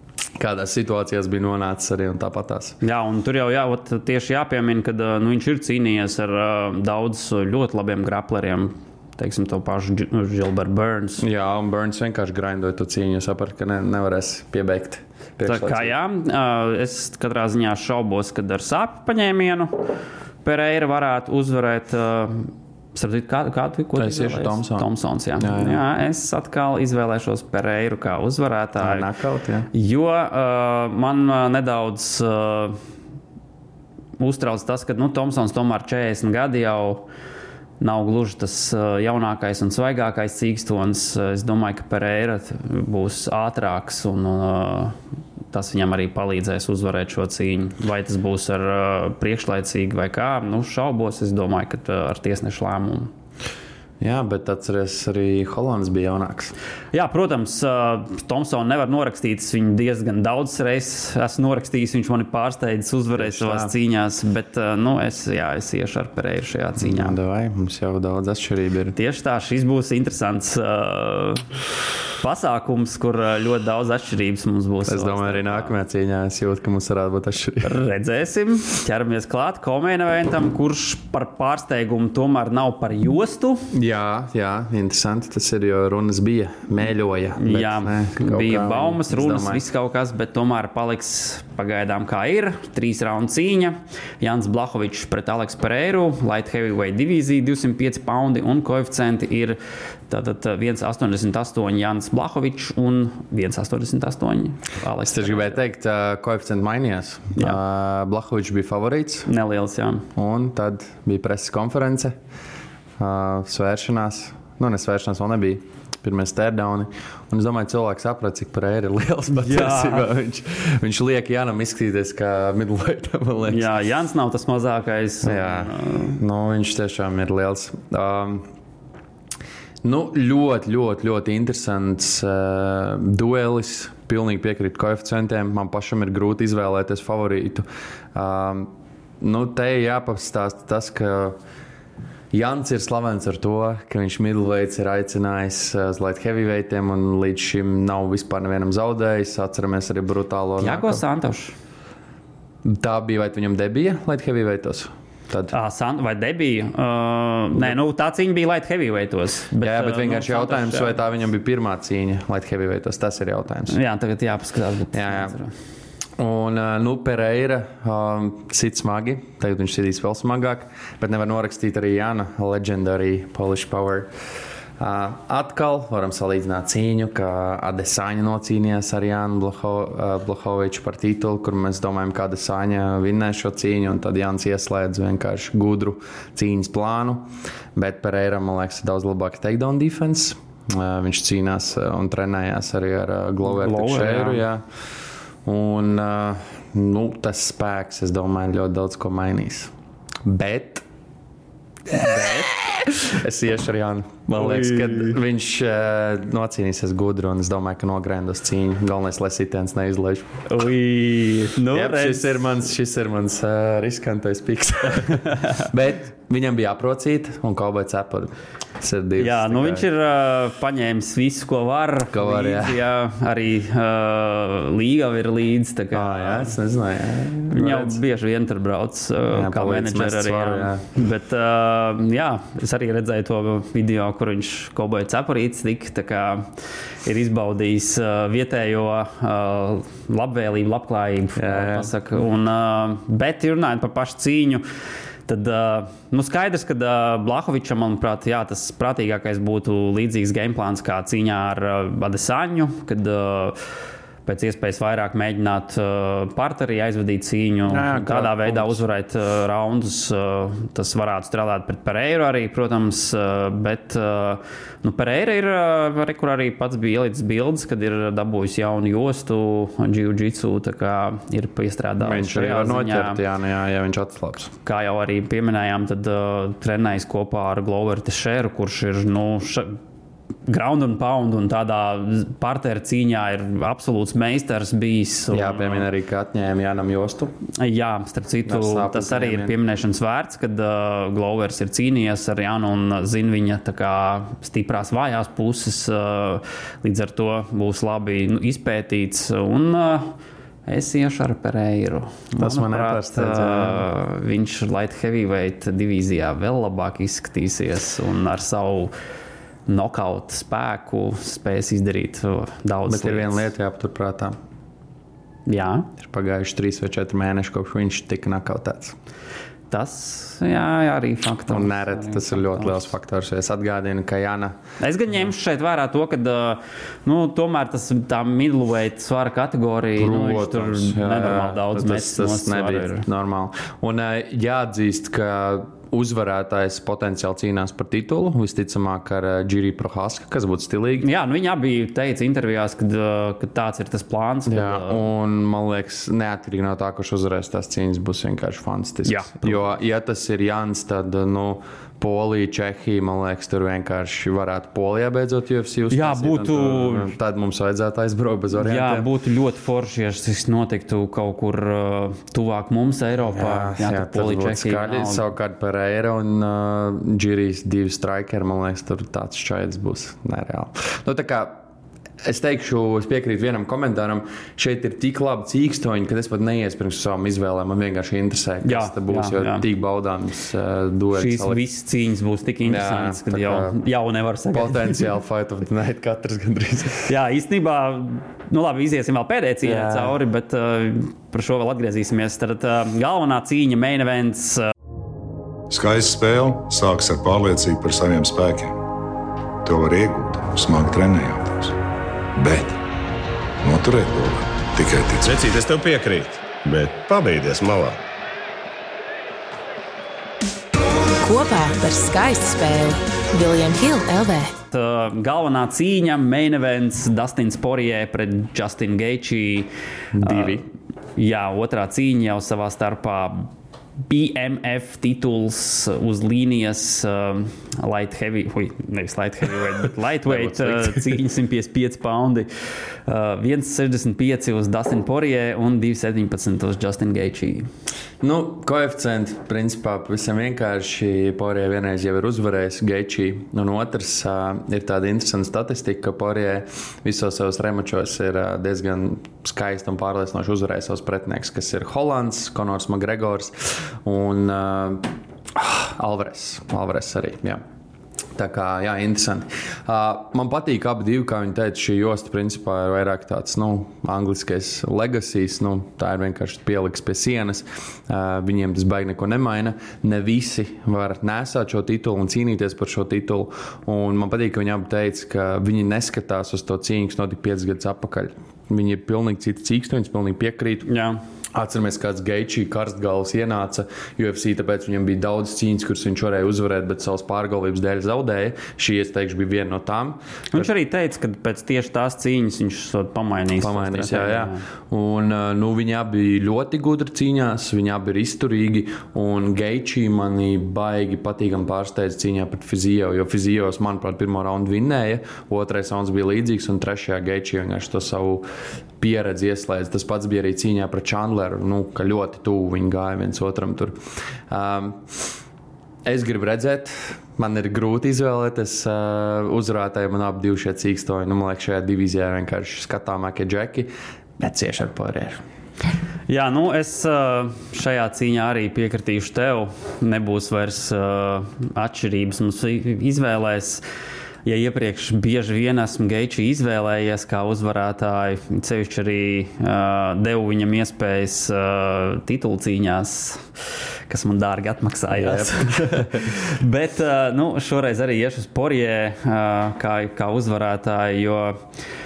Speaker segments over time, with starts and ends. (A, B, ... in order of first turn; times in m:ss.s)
0:00.4-0:02.8 A
0:02.8-0:11.2 B
0:11.2-0:15.9 A
0:15.4-0:19.9 B
0:20.4-0:29.1 B
0:24.0-0:25.8 A
0:28.8-0:29.7 A
0:29.7-0:32.8 B
0:34.2-0:37.0 B
0:37.8-0:45.0 B
0:45.5-0:53.1 B
0:54.0-0:56.5 A
0:56.9-1:07.2 B
1:03.2-1:03.7 A
1:06.8-1:09.0 A
1:08.9-1:11.5 B
1:12.2-1:15.7 B
1:14.8-1:17.7 A
1:17.6-1:23.7 B
1:23.7-1:29.6 A
1:27.4-1:39.6 B
1:40.1-1:45.6 B
1:45.1-1:49.3 A
1:49.2-1:50.1 B
1:50.1-1:52.2 A
1:53.0-2:03.7 A
1:59.4-2:00.1 B
2:03.5-2:06.2 B
2:05.2-2:08.4 A
2:09.8-2:21.4 A
2:22.3-2:31.0 A
2:30.6-2:31.5 B
2:32.6-2:35.5 A
2:35.5-2:40.9 B
2:39.6-2:43.8 A
2:43.7-2:45.5 B
2:44.9-2:45.4 A
2:46.2-2:54.1 A
2:54.8-3:14.6 A
3:13.4-3:14.4 B
3:15.4-3:19.7 A
3:20.2-3:20.8 A
3:21.9-3:30.4 A
3:21.9-3:22.5 B
3:24.3-3:25.2 B
3:30.5-3:32.4 B
3:31.7-3:39.8 A
3:39.2-3:46.5 B
3:42.1-3:42.8 A
3:45.9-3:48.0 A
3:47.5-3:56.5 B
3:49.3-3:50.9 A
3:57.0-4:04.6 B
4:01.4-4:01.9 A
4:05.3-4:13.6 B
4:14.2-4:33.2 B
4:17.7-4:18.8 A
4:32.0-4:34.5 A
4:34.6-4:39.8 B
4:40.5-4:45.9 B
4:45.3-4:47.4 A
4:47.6-5:00.1 B
4:48.4-4:49.6 A
5:00.7-5:08.9 B
5:02.4-5:03.8 A
5:09.7-5:13.5 B
5:12.9-5:14.4 A
5:15.5-5:15.9 B
5:16.0-5:19.0 A
5:19.7-5:22.8 B
5:21.5-5:24.6 A
5:24.8-5:33.0 B
5:30.0-5:41.1 A
5:41.0-5:45.0 B
5:44.5-5:59.1 A
5:49.0-5:49.6 B
5:55.9-5:57.1 B
5:58.5-6:05.2 B
6:03.3-6:11.6 A
6:12.2-6:21.6 A
6:18.6-6:19.6 B
6:21.1-6:25.0 B
6:22.6-6:23.8 A
6:24.5-6:27.1 A
6:27.1-6:34.7 B
6:29.6-6:30.2 A
6:35.7-6:38.7 C
6:39.6-6:41.8 C
6:42.3-6:42.8 C
6:43.6-6:45.3 C
6:45.2-6:48.0 D
6:51.2-6:54.5 E
6:54.7-6:59.7 B
7:00.1-7:00.6 A
7:00.2-7:00.6 B
7:01.2-7:03.5 B
7:04.1-7:12.5 B
7:10.2-7:11.2 A
7:13.1-7:17.7 B
7:18.2-7:37.6 A
7:38.4-8:00.9 A
8:00.8-8:01.2 B
8:01.5-8:10.7 A
8:10.5-8:14.6 B
8:13.6-8:28.4 A
8:29.0-8:34.0 A
8:34.5-8:35.2 A
8:36.0-8:45.4 A
8:46.3-8:53.8 B
8:54.4-9:11.6 B
9:05.1-9:06.2 A